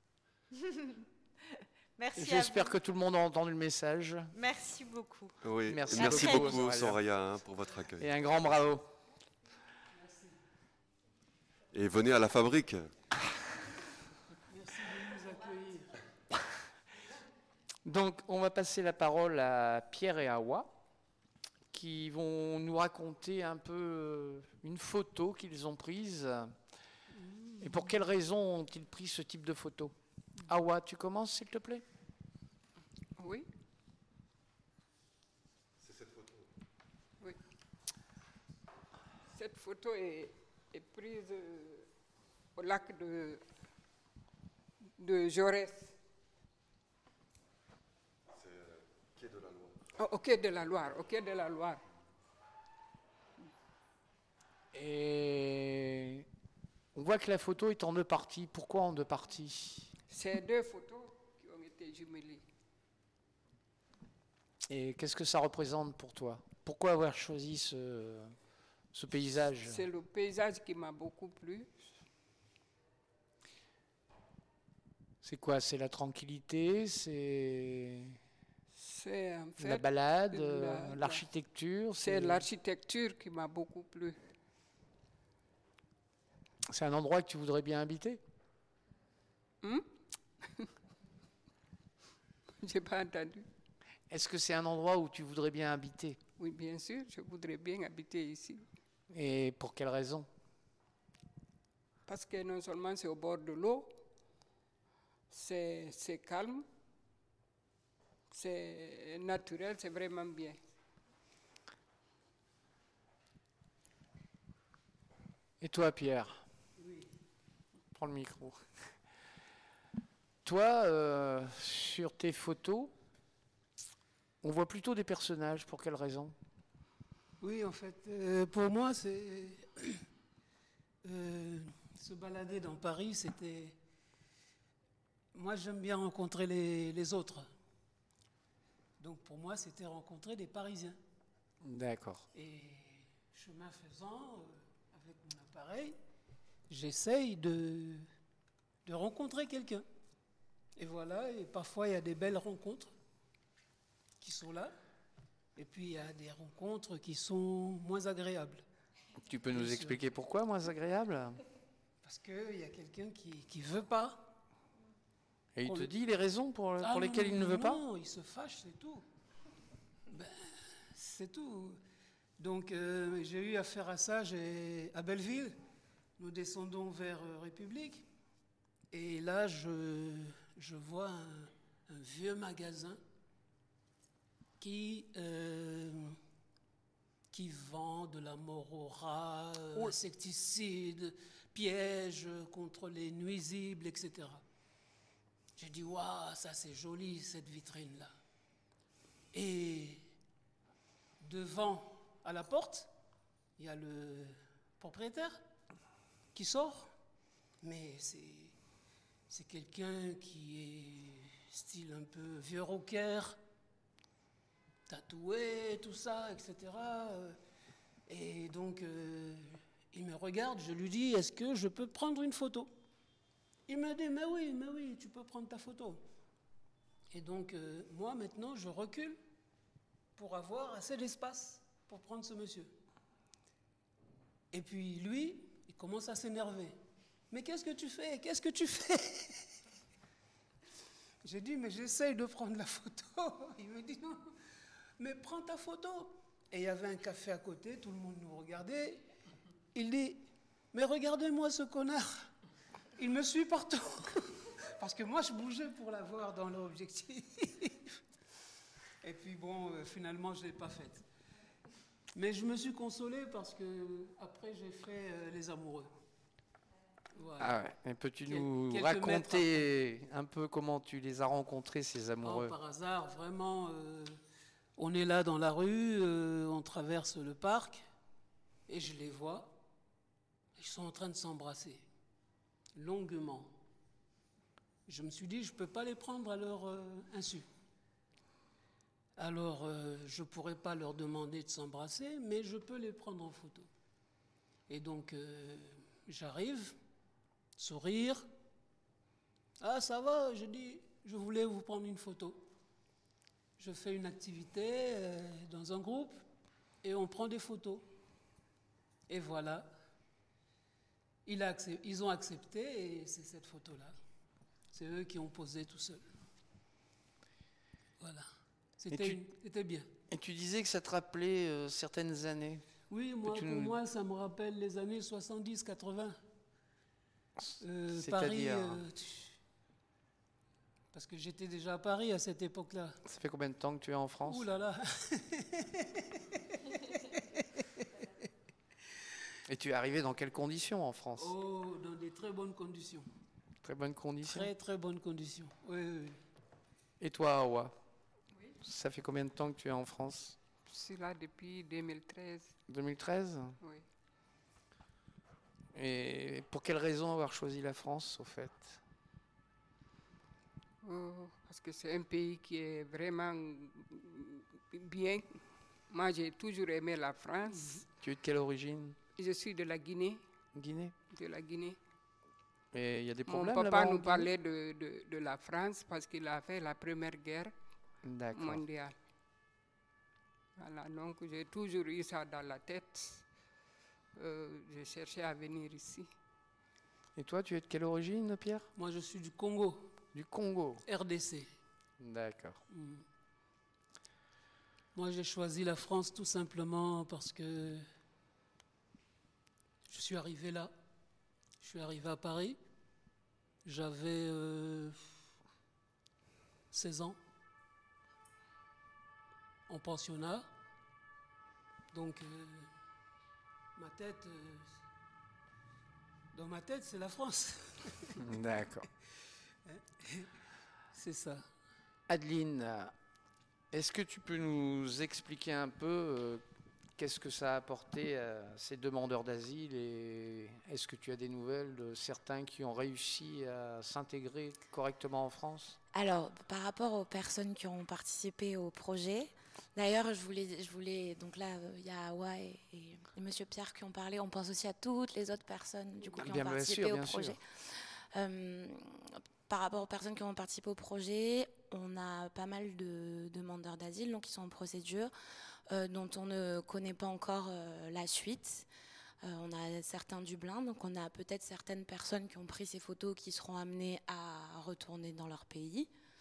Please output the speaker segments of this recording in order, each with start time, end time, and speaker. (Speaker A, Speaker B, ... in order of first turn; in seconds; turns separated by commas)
Speaker A: 0.5-2.7, Speaker B: 2.1-4.3, Speaker A: 4.3-5.3, Speaker C: 5.4-8.1, Speaker B: 5.7-7.0, Speaker A: 5.9-6.5, Speaker B: 8.0-8.9, Speaker D: 9.9-10.3, Speaker C: 11.7-12.9, Speaker D: 14.5-16.0, Speaker B: 17.8-20.8, Speaker B: 21.7-26.6, Speaker B: 27.6-29.9, Speaker B: 30.4-31.8, Speaker E: 33.2-33.5, Speaker C: 35.8-36.5, Speaker E: 39.3-41.9, Speaker E: 42.5-43.4, Speaker E: 45.0-46.0, Speaker C: 48.3-49.9, Speaker E: 50.0-51.8, Speaker B: 54.7-56.2, Speaker B: 56.9-59.9, Speaker E: 60.1-62.4, Speaker B: 64.7-68.3, Speaker B: 68.9-69.8, Speaker E: 69.6-71.7, Speaker B: 75.2-78.2, Speaker E: 78.7-81.2, Speaker B: 79.6-82.5, Speaker E: 82.0-84.2, Speaker B: 86.7-88.2, Speaker E: 89.6-89.9, Speaker E: 90.4-90.7, Speaker E: 92.6-93.5, Speaker B: 94.1-96.2, Speaker E: 96.4-98.7, Speaker B: 99.1-100.3, Speaker E: 102.1-104.0, Speaker E: 105.3-106.6, Speaker E: 108.3-110.6, Speaker B: 115.6-116.4, Speaker D: 116.8-117.1, Speaker B: 117.9-118.8, Speaker B: 120.4-122.9, Speaker B: 124.4-126.3, Speaker D: 127.4-130.0, Speaker D: 131.0-133.8, Speaker D: 135.3-137.5, Speaker D: 139.0-141.0, Speaker B: 141.6-142.2, Speaker D: 142.3-146.0, Speaker D: 146.7-148.1, Speaker D: 148.8-149.8, Speaker D: 150.8-152.9, Speaker D: 154.2-154.7, Speaker D: 155.6-158.6, Speaker B: 159.2-161.4, Speaker D: 159.5-160.0, Speaker D: 162.0-164.4, Speaker B: 165.6-167.8, Speaker D: 165.6-165.9, Speaker D: 166.8-169.1, Speaker D: 170.1-171.8, Speaker D: 172.4-175.6, Speaker D: 176.2-178.1, Speaker D: 178.9-183.0, Speaker D: 184.6-186.2, Speaker D: 187.3-194.4, Speaker D: 195.6-198.1, Speaker D: 199.3-200.0, Speaker D: 201.2-202.9, Speaker D: 203.6-205.4, Speaker D: 206.3-206.9, Speaker D: 207.6-208.6, Speaker D: 209.3-213.4, Speaker D: 214.9-217.4, Speaker D: 218.1-222.7, Speaker D: 223.7-226.0, Speaker D: 227.1-229.2, Speaker D: 230.2-232.7, Speaker D: 234.5-236.8, Speaker D: 237.3-239.5, Speaker D: 241.2-244.3, Speaker D: 245.0-249.1, Speaker D: 249.7-252.3, Speaker D: 252.9-258.0, Speaker D: 259.0-261.0, Speaker D: 262.1-265.9, Speaker D: 267.1-267.5, Speaker B: 267.4-272.5, Speaker D: 268.3-269.6, Speaker D: 272.2-274.2, Speaker D: 274.8-277.8, Speaker D: 278.7-279.6, Speaker D: 280.6-281.9, Speaker D: 282.7-283.5, Speaker D: 284.9-287.4, Speaker D: 289.1-293.7, Speaker D: 294.7-296.8, Speaker D: 297.6-298.3, Speaker D: 299.6-302.5, Speaker D: 303.6-306.2, Speaker D: 306.8-307.9, Speaker D: 309.1-309.7, Speaker D: 311.2-313.9, Speaker D: 314.7-316.1, Speaker D: 318.0-319.9, Speaker B: 318.9-319.2, Speaker B: 320.1-322.7, Speaker D: 322.9-326.2, Speaker B: 323.2-323.8, Speaker B: 327.4-328.8, Speaker D: 327.6-329.4, Speaker D: 330.9-333.0, Speaker B: 333.0-334.5, Speaker D: 334.3-338.1, Speaker B: 339.5-341.3, Speaker D: 341.2-343.1, Speaker B: 343.6-344.5, Speaker D: 344.3-346.2, Speaker B: 347.0-347.8, Speaker B: 348.5-350.4, Speaker E: 350.7-352.6, Speaker B: 352.7-353.6, Speaker B: 355.7-358.8, Speaker E: 360.8-367.8, Speaker B: 368.0-369.0, Speaker E: 369.2-370.2, Speaker B: 370.5-370.9, Speaker E: 371.1-371.8, Speaker B: 372.7-374.3, Speaker E: 373.3-377.5, Speaker B: 378.0-378.6, Speaker E: 378.3-378.9, Speaker E: 380.6-383.2, Speaker E: 384.1-386.1, Speaker B: 387.1-388.7, Speaker D: 388.8-390.0, Speaker B: 390.1-390.8, Speaker D: 390.9-391.5, Speaker B: 392.0-392.6, Speaker D: 392.7-393.0, Speaker D: 394.9-397.9, Speaker D: 399.9-400.7, Speaker D: 401.6-402.6, Speaker D: 403.6-405.1, Speaker D: 406.7-407.2, Speaker D: 409.7-410.5, Speaker D: 411.9-412.7, Speaker D: 413.8-414.8, Speaker D: 416.3-418.2, Speaker B: 418.2-418.9, Speaker D: 419.6-420.3, Speaker D: 420.9-421.4, Speaker B: 422.1-422.9, Speaker B: 423.7-426.4, Speaker B: 427.0-435.8, Speaker F: 435.9-455.1, Speaker B: 446.1-447.4, Speaker F: 455.7-458.6, Speaker F: 459.2-465.9